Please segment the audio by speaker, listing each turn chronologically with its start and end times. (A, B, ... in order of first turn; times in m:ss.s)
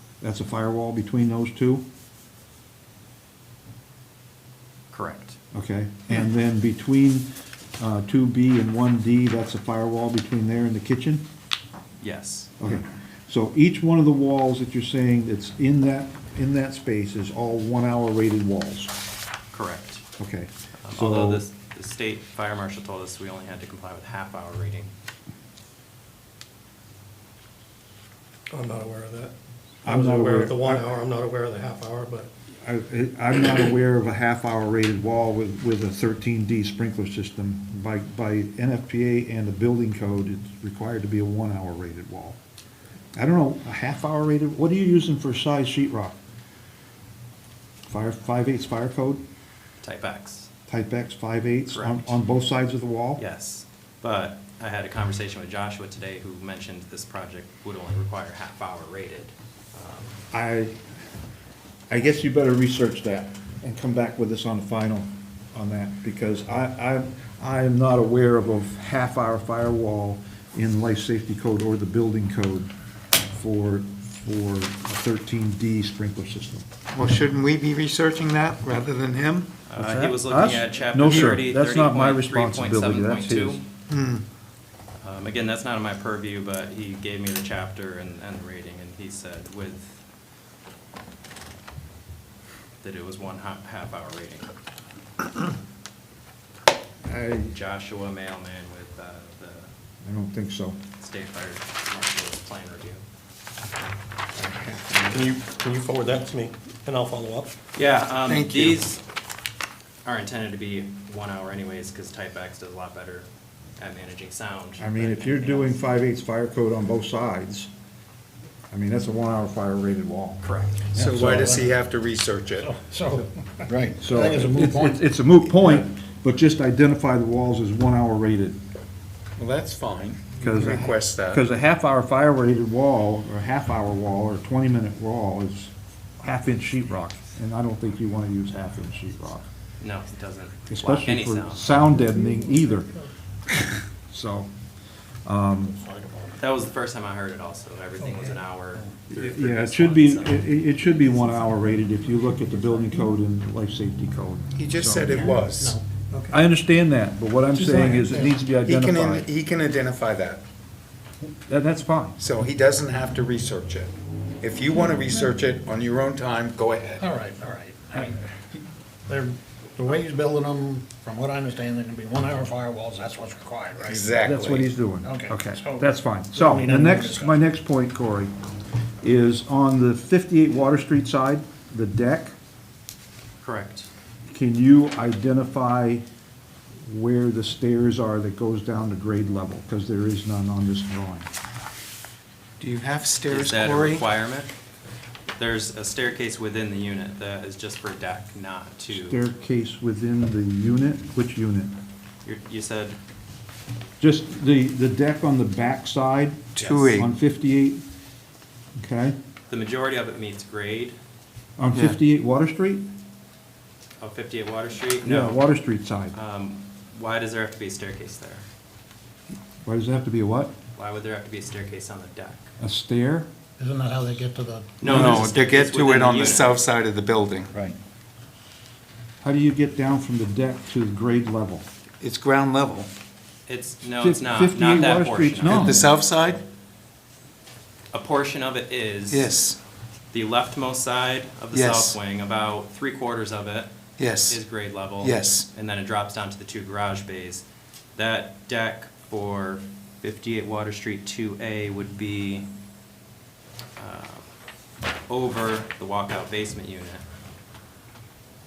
0:00.2-0:01.8 A
0:04.9-0:05.4 B
0:05.5-0:11.2 A
0:12.0-0:12.6 B
0:12.6-0:18.9 A
0:19.5-0:20.0 B
0:20.2-0:21.4 A
0:20.8-0:24.9 B
0:28.5-0:29.3 C
0:29.8-0:30.9 A
0:29.9-0:32.3 C
0:32.6-0:42.4 A
0:43.2-0:46.2 A
0:47.9-0:49.2 A
0:49.8-0:50.5 B
0:50.7-0:53.2 A
0:51.7-0:52.1 B
0:53.2-1:00.2 B
1:00.3-1:00.8 A
1:01.9-1:12.7 A
1:13.3-1:16.7 A
1:16.9-1:19.5 D
1:19.7-1:23.6 B
1:19.8-1:23.6 A
1:21.0-1:21.4 D
1:23.9-1:24.2 D
1:25.0-1:30.0 B
1:32.8-1:34.5 B
1:37.0-1:37.5 A
1:37.4-1:39.7 B
1:40.0-1:40.8 A
1:41.0-1:43.0 B
1:44.4-1:45.1 D
1:45.1-1:47.5 C
1:47.8-1:49.0 B
1:48.2-1:48.9 D
1:50.0-1:53.3 B
1:53.8-1:55.8 B
1:54.8-1:57.7 A
1:58.7-2:00.4 A
2:00.4-2:01.0 B
2:00.9-2:02.8 D
2:01.0-2:01.6 A
2:01.0-2:01.6 E
2:02.6-2:05.0 E
2:03.7-2:03.9 D
2:04.0-2:08.6 A
2:09.4-2:11.4 D
2:10.4-2:19.4 A
2:19.8-2:21.8 B
2:20.7-2:22.9 A
2:24.1-2:24.5 A
2:25.3-2:25.8 A
2:25.8-2:26.4 E
2:26.4-2:30.5 B
2:29.1-2:35.2 A
2:34.6-2:35.8 D
2:35.1-2:36.4 E
2:36.3-2:39.3 A
2:37.6-2:38.2 E
2:38.0-2:40.4 D
2:41.5-2:42.2 A
2:42.2-2:47.1 D
2:47.0-2:48.2 E
2:49.1-2:54.0 E
2:53.8-2:54.7 D
2:54.2-2:58.3 A
2:55.0-2:57.4 E
2:59.0-3:02.3 A
3:03.4-3:03.9 B
3:04.3-3:06.0 A
3:06.9-3:11.3 A
3:12.6-3:14.1 D
3:13.3-3:14.5 B
3:15.4-3:19.2 B
3:18.9-3:21.7 A
3:22.2-3:23.0 B
3:24.0-3:27.8 A
3:26.6-3:27.1 D
3:28.8-3:29.2 A
3:29.5-3:31.0 B
3:31.6-3:32.8 A
3:34.0-3:35.4 B
3:35.0-3:36.2 A
3:36.1-3:38.5 B
3:39.6-3:40.5 A
3:40.8-3:42.5 B
3:42.6-3:43.3 A
3:43.6-3:45.0 E
3:44.8-3:46.6 B
3:44.8-3:47.7 D
3:44.8-3:45.3 A
3:49.2-3:51.7 A
3:52.0-3:52.9 D
3:53.5-3:55.9 B
3:54.0-3:55.9 A
3:55.4-3:56.4 D
3:57.9-3:59.3 B
3:59.1-3:59.6 D
4:00.1-4:03.7 B
4:01.5-4:02.0 D
4:04.0-4:04.4 D
4:04.3-4:07.4 B
4:05.0-4:05.5 D
4:08.0-4:12.5 B
4:13.8-4:14.2 B
4:15.1-4:17.0 B